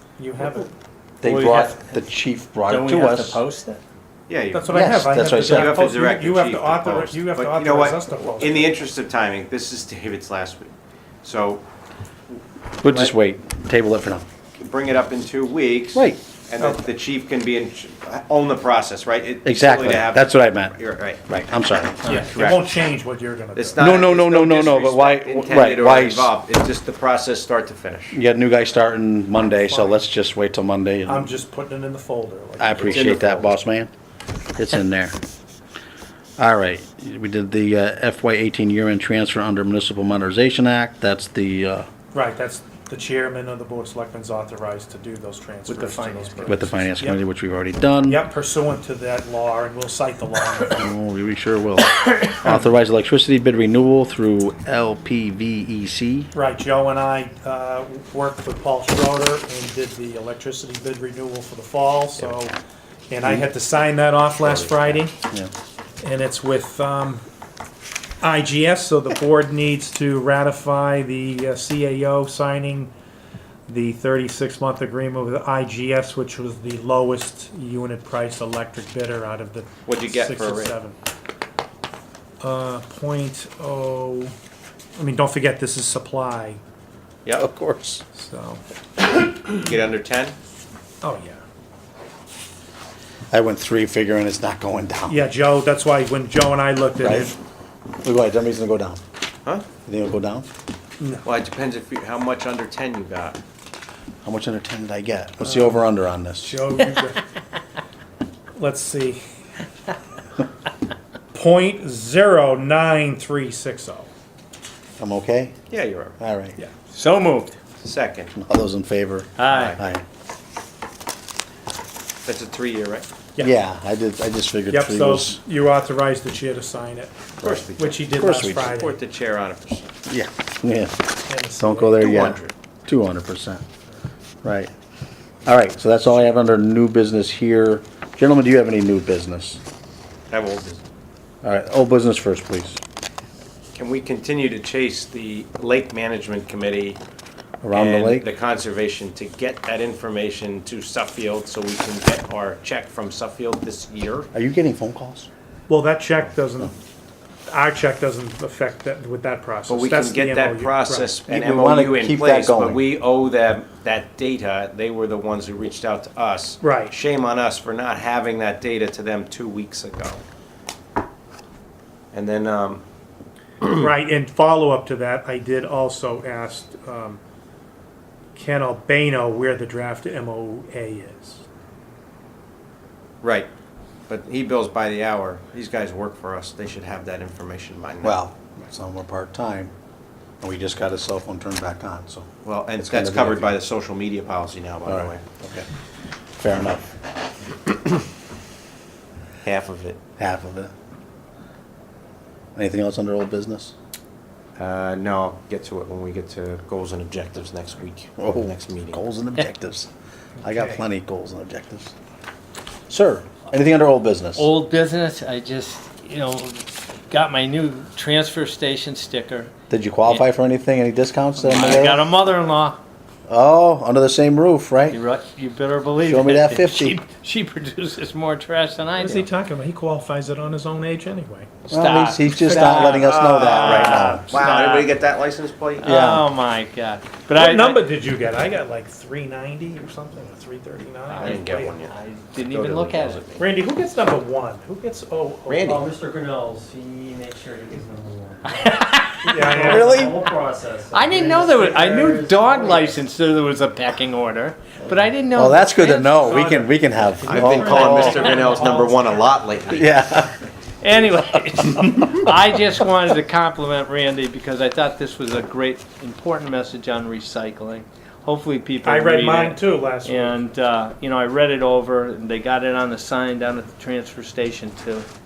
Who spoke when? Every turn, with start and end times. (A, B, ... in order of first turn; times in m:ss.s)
0:00.2-0:00.7 A
0:01.2-0:02.0 B
0:01.2-0:03.4 C
0:02.6-0:03.8 B
0:04.3-0:10.7 D
0:04.5-0:08.8 A
0:04.7-0:05.8 C
0:11.2-0:11.6 D
0:12.8-0:14.2 C
0:14.6-0:21.2 D
0:15.9-0:16.2 C
0:16.6-0:16.8 A
0:19.4-0:22.1 C
0:22.0-0:22.8 D
0:22.0-0:23.9 A
0:23.5-0:28.2 D
0:23.8-0:26.3 C
0:28.1-0:31.3 C
0:29.5-0:30.0 A
0:31.0-0:33.4 A
0:32.6-0:33.9 C
0:32.8-0:33.6 D
0:34.6-0:35.1 C
0:36.4-0:41.9 C
0:42.1-0:47.2 A
0:45.7-0:46.6 B
0:46.5-0:48.2 C
0:48.0-0:50.9 A
0:50.7-0:56.3 C
0:56.3-1:02.6 A
1:03.1-1:05.2 A
1:04.4-1:05.0 D
1:06.0-1:07.2 A
1:08.2-1:12.9 A
1:13.7-1:21.0 A
1:19.8-1:20.8 D
1:22.4-1:24.3 A
1:25.0-1:26.6 A
1:27.3-1:28.0 C
1:28.1-1:28.6 A
1:29.5-1:30.3 D
1:31.0-1:31.4 A
1:33.3-1:35.2 C
1:35.1-1:37.3 A
1:37.0-1:37.3 C
1:38.0-1:39.0 C
1:39.8-1:40.4 C
1:41.0-1:41.3 A
1:41.2-1:43.4 D
1:44.2-1:46.6 C
1:45.4-1:45.8 A
1:46.4-1:47.2 A
1:48.6-1:49.2 A
1:51.3-1:54.1 A
1:55.0-1:55.6 C
1:55.7-1:56.2 D
1:56.2-1:56.6 C
1:56.9-1:57.6 B
1:57.8-1:58.3 D
1:58.3-2:00.0 C
1:59.4-1:59.8 B
1:59.5-1:59.8 D
2:02.2-2:03.1 D
2:03.4-2:05.4 C
2:04.7-2:07.2 A
2:07.4-2:09.9 D
2:07.7-2:09.0 A
2:08.1-2:08.7 C
2:10.1-2:13.6 C
2:11.3-2:12.5 A
2:12.0-2:12.4 D
2:14.4-2:14.7 C
2:15.4-2:19.6 C
2:20.3-2:20.8 D
2:21.4-2:22.8 C
2:23.7-2:27.0 D
2:27.6-2:28.3 C
2:27.7-2:34.3 D
2:34.3-2:35.3 C
2:35.7-2:36.7 A
2:37.5-2:41.1 A
2:39.7-2:50.2 D
2:41.2-2:42.9 C
2:46.6-2:46.9 A
2:52.1-2:52.8 D
2:53.6-2:57.2 A
2:58.3-3:01.4 A
3:03.2-3:03.5 D
3:04.1-3:08.2 D
3:08.0-3:09.7 C
3:10.4-3:13.6 C
3:12.4-3:15.2 D
3:14.8-3:15.7 C
3:16.4-3:16.8 C
3:19.4-3:20.0 D
3:20.2-3:20.7 C
3:22.6-3:23.7 C
3:24.6-3:29.0 D
3:28.2-3:29.9 C
3:30.4-3:30.8 A
3:30.4-3:31.9 C
3:32.9-3:34.5 C
3:34.4-3:39.5 B
3:39.7-3:42.0 C
3:41.4-3:42.8 B
3:43.3-3:45.0 C
3:44.9-3:49.2 B
3:46.0-3:47.0 C
3:49.0-3:51.5 A
3:51.7-3:54.3 C
3:51.7-3:55.0 B
3:52.6-3:55.9 D
3:55.8-3:57.8 B
3:55.8-3:56.2 C
3:57.3-4:01.8 A
4:01.1-4:03.2 B
4:01.1-4:03.4 D
4:03.4-4:05.9 A
4:05.5-4:05.9 D
4:05.6-4:08.7 E
4:08.5-4:09.3 B
4:09.2-4:10.1 A
4:09.2-4:13.0 E
4:09.4-4:10.2 C
4:10.9-4:16.5 B
4:11.5-4:12.1 A
4:15.3-4:18.3 C
4:16.2-4:19.4 A
4:17.2-4:19.9 D
4:17.6-4:18.6 B
4:19.7-4:20.3 C
4:20.8-4:35.1 B
4:28.8-4:30.4 A